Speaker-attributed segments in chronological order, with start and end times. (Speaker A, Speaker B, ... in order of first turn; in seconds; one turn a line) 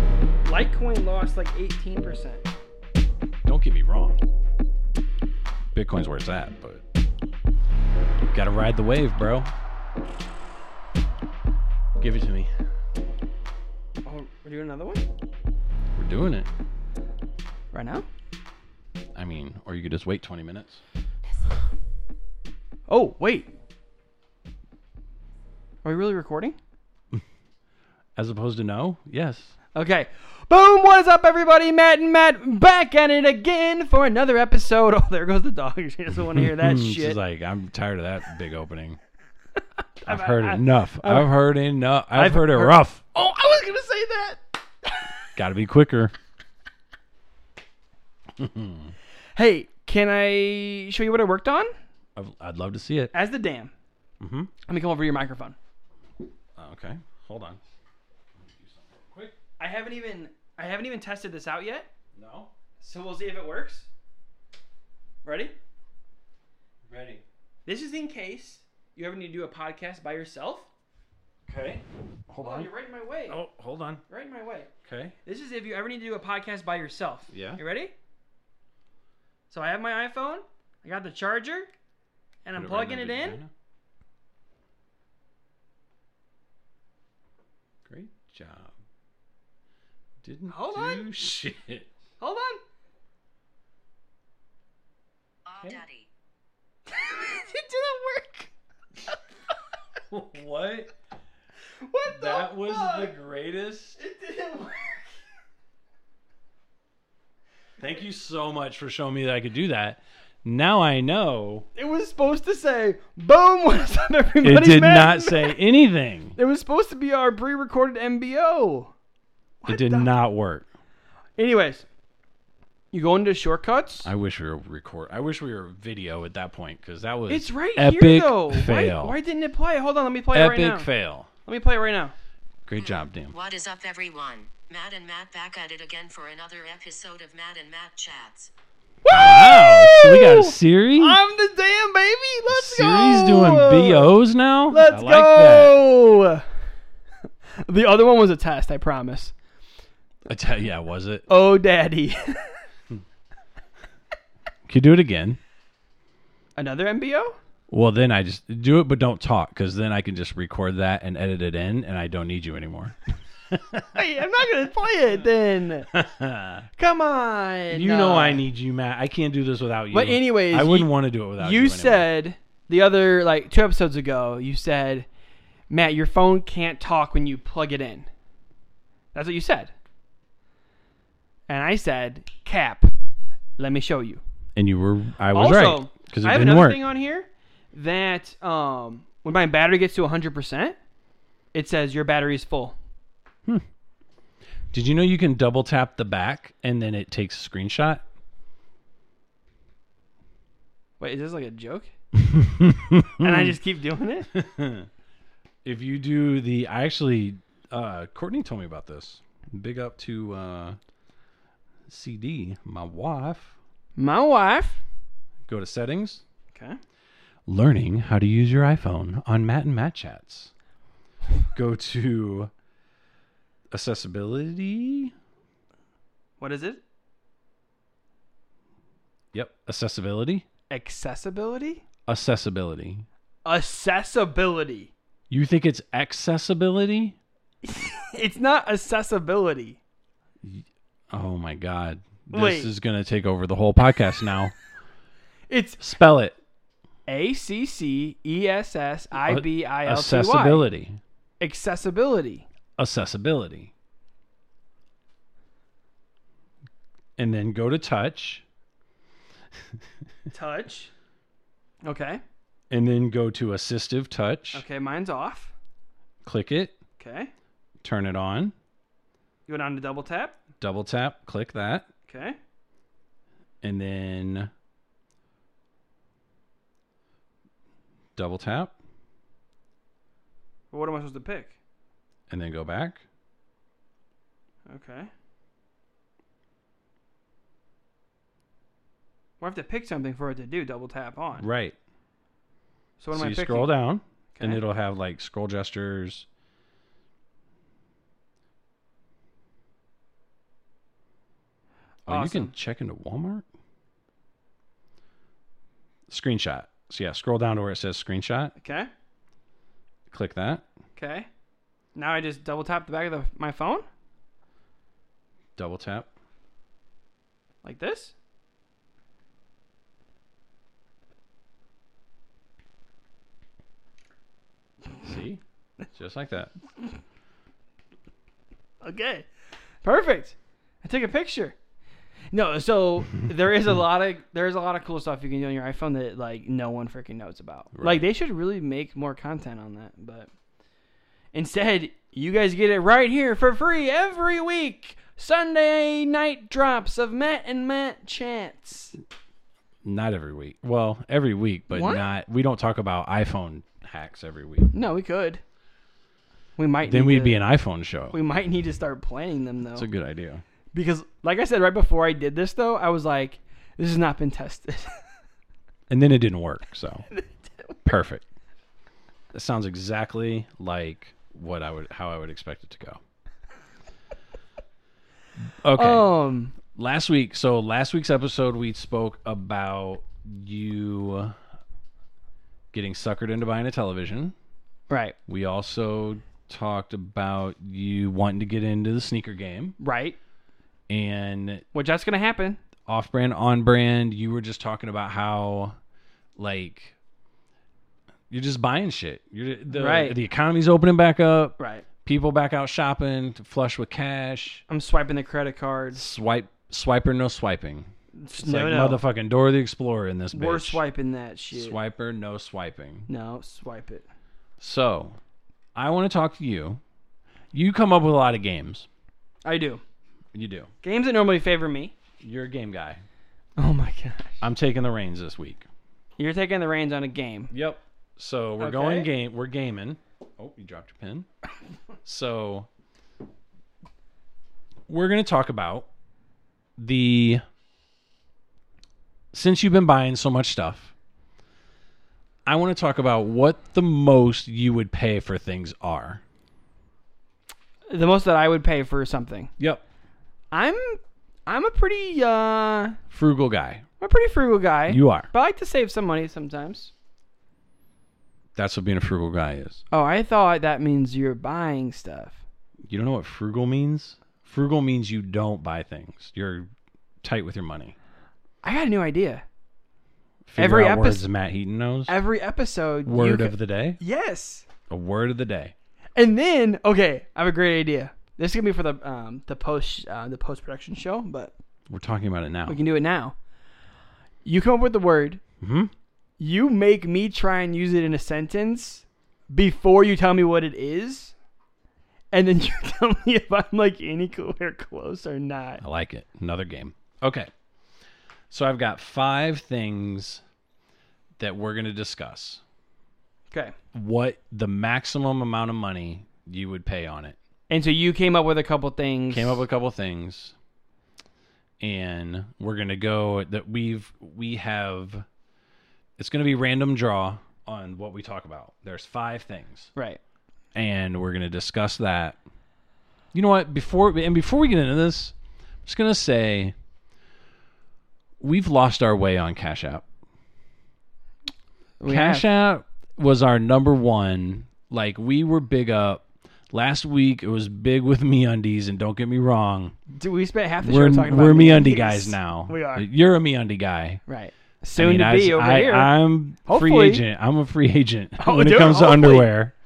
Speaker A: 0.5-2.4
Speaker B: 3.4-4.2
Speaker B: 5.7-6.8
Speaker B: 8.3-9.5
Speaker B: 12.0-12.5
Speaker A: 14.0-15.0
Speaker B: 15.9-16.5
Speaker A: 17.7-18.1
Speaker B: 19.1-20.8
Speaker A: 22.9-23.5
Speaker A: 25.8-26.6
Speaker B: 28.1-29.5
Speaker A: 29.7-37.2
Speaker B: 36.1-39.0
Speaker A: 40.0-41.3
Speaker B: 40.0-43.0
Speaker A: 42.1-45.3
Speaker B: 45.4-46.1
Speaker B: 48.4-48.9
Speaker A: 49.4-51.7
Speaker B: 52.1-53.1
Speaker A: 53.1-53.7
Speaker B: 54.2-54.5
Speaker A: 54.6-55.5
Speaker B: 56.6-57.6
Speaker B: 58.4-59.4
Speaker A: 59.6-61.9
Speaker B: 62.1-62.5
Speaker A: 62.8-63.9
Speaker A: 65.2-65.5
Speaker B: 66.8-67.2
Speaker A: 67.7-70.7
Speaker B: 71.5-72.7
Speaker A: 72.4-73.4
Speaker B: 73.3-74.0
Speaker A: 74.1-74.7
Speaker B: 74.8-75.1
Speaker A: 75.2-77.9
Speaker B: 77.3-77.6
Speaker A: 79.5-81.7
Speaker A: 82.4-83.4
Speaker B: 82.5-83.5
Speaker B: 87.8-88.7
Speaker B: 90.2-91.9
Speaker A: 90.5-91.1
Speaker A: 92.2-92.6
Speaker C: 95.5-96.1
Speaker B: 95.5-95.8
Speaker A: 96.9-98.5
Speaker B: 100.1-100.9
Speaker A: 101.8-103.1
Speaker B: 102.0-104.0
Speaker A: 104.0-105.1
Speaker B: 107.8-111.7
Speaker A: 111.7-115.6
Speaker B: 114.4-116.3
Speaker A: 116.3-118.9
Speaker A: 119.6-120.1
Speaker B: 119.7-120.7
Speaker A: 121.4-121.8
Speaker A: 122.9-124.1
Speaker B: 124.0-129.2
Speaker A: 127.3-130.9
Speaker B: 130.3-131.3
Speaker A: 131.4-132.1
Speaker B: 132.7-133.3
Speaker C: 132.8-138.5
Speaker A: 139.0-144.1
Speaker B: 139.1-141.2
Speaker B: 142.5-145.8
Speaker A: 144.7-146.4
Speaker A: 147.6-149.3
Speaker B: 150.2-151.3
Speaker A: 151.3-152.6
Speaker B: 154.7-155.4
Speaker A: 156.6-157.4
Speaker B: 157.7-163.9
Speaker A: 163.9-165.9
Speaker B: 165.9-166.7
Speaker A: 166.8-168.4
Speaker B: 167.7-172.1
Speaker A: 169.9-175.1
Speaker A: 175.7-178.1
Speaker A: 179.1-179.7
Speaker A: 181.5-182.9
Speaker A: 183.6-184.2
Speaker B: 184.6-186.8
Speaker A: 185.3-190.8
Speaker A: 191.5-192.8
Speaker B: 194.7-198.0
Speaker A: 201.0-201.9
Speaker B: 202.2-203.5
Speaker A: 203.2-204.3
Speaker B: 204.3-204.9
Speaker B: 205.6-210.8
Speaker B: 211.9-213.5
Speaker A: 213.9-214.8
Speaker B: 215.5-216.2
Speaker A: 216.5-216.8
Speaker B: 217.4-220.5
Speaker B: 221.5-222.5
Speaker B: 223.7-225.1
Speaker A: 226.4-226.8
Speaker B: 229.3-230.4
Speaker A: 230.7-231.8
Speaker B: 232.1-233.1
Speaker A: 233.4-234.9
Speaker B: 235.3-237.2
Speaker A: 237.6-239.8
Speaker B: 240.4-244.5
Speaker A: 242.3-242.7
Speaker A: 245.5-245.8
Speaker B: 245.8-246.3
Speaker A: 247.1-250.7
Speaker B: 249.2-251.0
Speaker A: 251.4-252.5
Speaker B: 252.8-253.7
Speaker B: 257.2-258.4
Speaker A: 260.3-260.9
Speaker A: 261.8-262.2
Speaker B: 262.7-264.6
Speaker A: 264.5-265.5
Speaker B: 266.2-266.7
Speaker A: 267.0-267.3
Speaker B: 267.8-268.5
Speaker A: 269.5-270.3
Speaker B: 270.6-271.9
Speaker A: 272.1-272.4
Speaker B: 273.6-274.5
Speaker B: 278.1-278.7
Speaker A: 280.7-281.5
Speaker B: 282.3-283.0
Speaker A: 284.7-285.1
Speaker A: 289.4-291.5
Speaker B: 291.4-291.8
Speaker A: 293.0-293.8
Speaker B: 293.1-296.2
Speaker A: 294.3-294.6
Speaker B: 302.1-303.4
Speaker A: 302.1-302.5
Speaker B: 306.1-308.5
Speaker A: 308.6-308.9
Speaker B: 310.1-310.6
Speaker A: 310.9-311.3
Speaker A: 311.9-313.9
Speaker B: 315.6-316.1
Speaker A: 317.6-318.1
Speaker B: 325.0-325.4
Speaker B: 325.9-326.5
Speaker A: 328.8-329.3
Speaker A: 329.8-331.5
Speaker A: 332.3-340.3
Speaker B: 337.7-338.0
Speaker A: 341.3-349.0
Speaker B: 349.8-354.7
Speaker A: 351.7-352.1
Speaker A: 354.7-355.4
Speaker A: 356.6-357.4
Speaker B: 356.8-358.2
Speaker A: 358.1-359.9
Speaker B: 359.7-360.4
Speaker A: 360.7-364.9
Speaker B: 365.9-367.1
Speaker A: 367.1-367.7
Speaker B: 367.8-368.2
Speaker B: 369.3-373.0
Speaker B: 375.6-376.1
Speaker A: 375.7-376.6
Speaker B: 376.6-381.3
Speaker B: 382.7-384.3
Speaker A: 384.9-385.1
Speaker B: 385.3-389.8
Speaker A: 389.8-390.2
Speaker B: 390.9-391.6
Speaker A: 391.7-392.6
Speaker B: 392.9-395.7
Speaker B: 396.4-396.9
Speaker B: 398.3-404.6
Speaker A: 399.7-400.1
Speaker A: 401.6-401.8
Speaker A: 404.7-406.0
Speaker B: 405.9-410.8
Speaker A: 408.1-409.0
Speaker A: 410.3-411.8
Speaker B: 411.5-413.1
Speaker A: 413.1-414.1
Speaker B: 414.6-415.2
Speaker B: 415.8-416.8
Speaker B: 417.5-418.9
Speaker A: 419.4-419.8
Speaker B: 420.3-420.7
Speaker A: 420.8-421.9
Speaker B: 422.2-423.0
Speaker A: 423.6-424.4
Speaker B: 424.4-425.6
Speaker A: 426.2-427.5
Speaker B: 427.5-431.3
Speaker A: 428.6-429.1
Speaker B: 432.0-432.7
Speaker B: 434.9-435.9
Speaker B: 436.8-437.4
Speaker B: 439.3-440.9
Speaker B: 442.4-446.2
Speaker A: 447.9-449.5
Speaker A: 450.5-453.0
Speaker B: 453.1-453.8
Speaker A: 454.0-456.9
Speaker B: 454.9-455.3
Speaker B: 458.6-459.8
Speaker A: 459.9-462.4
Speaker B: 462.9-466.7
Speaker B: 467.2-467.9
Speaker A: 468.6-469.4
Speaker B: 470.4-472.1
Speaker A: 470.6-471.2
Speaker A: 472.1-474.6
Speaker B: 473.1-474.0
Speaker B: 474.9-475.7
Speaker A: 476.1-481.5
Speaker B: 481.9-482.8
Speaker A: 482.6-483.3
Speaker A: 484.4-485.4
Speaker B: 485.6-485.9
Speaker A: 486.4-491.3
Speaker A: 492.3-495.8
Speaker B: 495.8-497.5
Speaker B: 498.5-500.4
Speaker B: 501.4-502.6
Speaker B: 503.9-507.4
Speaker A: 507.7-509.6
Speaker B: 509.3-510.5
Speaker B: 511.8-515.2
Speaker B: 516.2-519.9
Speaker A: 519.9-520.2
Speaker B: 520.7-522.4
Speaker B: 523.3-525.3
Speaker B: 525.9-526.7
Speaker B: 528.4-530.0
Speaker A: 532.0-532.5
Speaker B: 532.0-540.0
Speaker A: 540.1-543.1
Speaker B: 540.8-544.2
Speaker A: 544.3-546.1
Speaker B: 545.0-549.7
Speaker A: 546.6-547.2
Speaker A: 548.4-549.5